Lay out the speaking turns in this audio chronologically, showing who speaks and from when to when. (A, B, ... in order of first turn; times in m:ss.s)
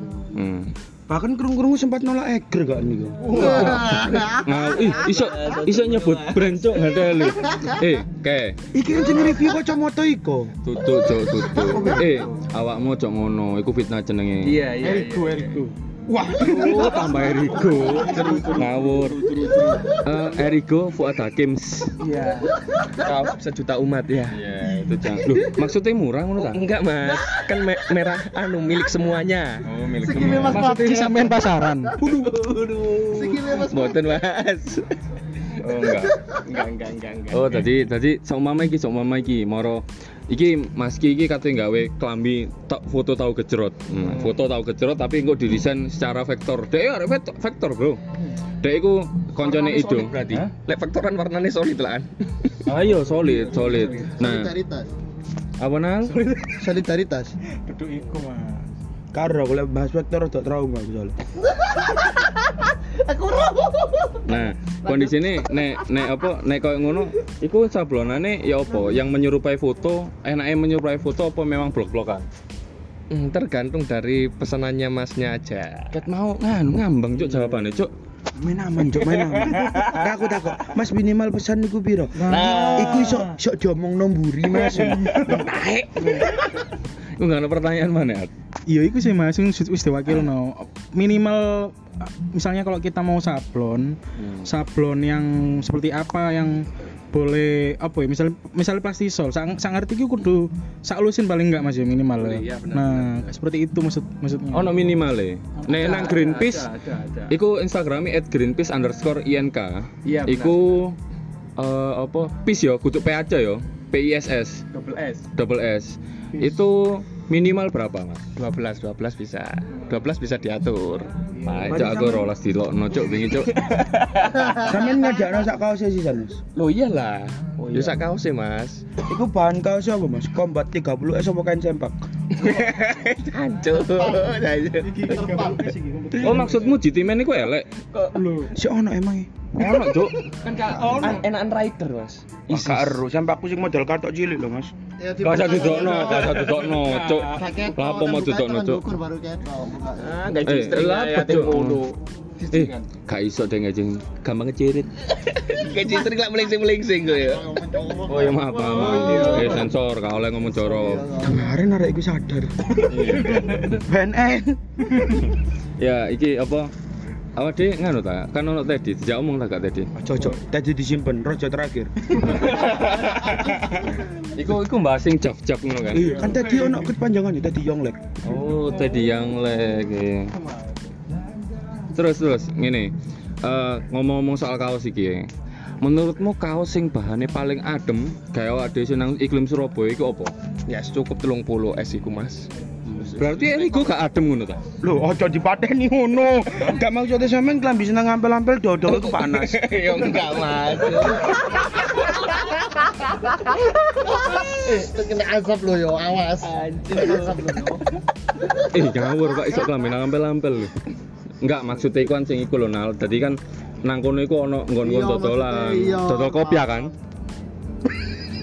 0:00.3-0:00.7 A
0:01.1-0:03.5 B
0:03.2-0:04.0 C
0:03.3-0:03.9 A
0:03.3-0:04.6 D
0:04.4-0:08.6 A
0:04.8-0:06.6 C
0:07.4-0:07.7 D
0:08.7-0:10.5 B
0:10.6-0:14.5 A
0:11.5-0:12.1 B
0:12.0-0:12.3 C
0:14.4-0:15.6 C
0:14.8-0:15.7 E
0:16.1-0:17.1 B
0:16.4-0:18.6 C
0:16.5-0:19.2 A
0:17.9-0:19.9 E
0:20.0-0:22.0 A
0:22.0-0:24.4 C
0:24.3-0:26.6 A
0:26.4-0:29.6 C
0:29.6-0:30.6 A
0:30.0-0:31.5 D
0:30.3-0:32.0 E
0:32.0-0:34.9 C
0:33.1-0:34.1 D
0:35.6-0:36.1 A
0:36.4-0:37.7 C
0:37.3-0:48.0 A
0:44.0-0:44.3 C
0:48.6-0:50.5 A
0:49.4-0:52.6 C
0:52.6-0:54.5 A
0:52.9-0:54.2 E
0:54.2-0:54.9 D
0:55.6-0:56.2 A
0:56.1-0:56.5 E
0:56.5-0:57.4 D
0:57.7-0:58.6 E
0:59.1-1:01.1 B
1:01.5-1:05.8 D
1:04.3-1:12.2 A
1:08.7-1:09.0 D
1:13.1-1:15.9 C
1:15.9-1:17.9 A
1:18.4-1:25.3 B
1:22.2-1:23.2 E
1:22.3-1:22.9 C
1:22.4-1:23.1 A
1:25.1-1:26.2 A
1:27.2-1:28.3 A
1:28.7-1:44.8 E
1:34.2-1:34.5 A
1:42.2-1:43.4 C
1:44.5-1:46.7 A
1:45.6-1:46.1 E
1:45.7-1:47.4 C
1:47.3-1:51.0 A
1:50.0-1:50.6 C
1:51.6-1:54.6 A
1:54.7-1:55.2 C
1:55.4-1:58.2 A
1:58.4-2:01.1 C
2:01.4-2:01.8 E
2:01.5-2:03.6 A
2:01.7-2:02.3 B
2:03.5-2:04.6 C
2:04.3-2:05.3 D
2:04.6-2:06.4 B
2:06.6-2:08.8 C
2:07.6-2:08.0 B
2:09.0-2:12.0 B
2:12.4-2:15.2 C
2:13.8-2:14.4 D
2:14.8-2:16.8 E
2:15.0-2:15.7 D
2:16.2-2:17.7 A
2:17.9-2:18.2 C
2:18.1-2:18.5 E
2:18.5-2:19.3 B
2:19.6-2:20.2 A
2:20.4-2:22.9 C
2:20.8-2:21.2 E
2:22.5-2:24.7 B
2:25.0-2:30.2 D
2:25.2-2:28.8 A
2:26.9-2:27.3 C
2:30.0-2:32.8 C
2:30.5-2:31.8 A
2:32.5-2:34.9 A
2:35.1-2:37.4 C
2:37.1-2:39.7 D
2:38.1-2:41.0 A
2:38.7-2:39.7 C
2:40.4-2:41.5 D
2:41.2-2:42.8 B
2:42.9-2:43.6 A
2:43.7-2:45.2 B
2:45.8-2:46.7 A
2:47.4-2:49.9 A
2:50.0-2:51.9 B
2:52.2-2:56.4 A
2:55.9-2:58.0 B
2:58.2-3:00.3 A
2:58.5-2:59.1 C
3:01.9-3:02.9 A
3:03.4-3:05.3 A
3:05.8-3:10.3 A
3:10.7-3:14.0 C
3:13.2-3:14.6 A
3:14.8-3:19.9 B
3:18.9-3:21.6 C
3:22.0-3:27.8 D
3:26.4-3:27.8 C
3:28.7-3:30.7 A
3:31.4-3:36.9 A
3:34.8-3:36.9 D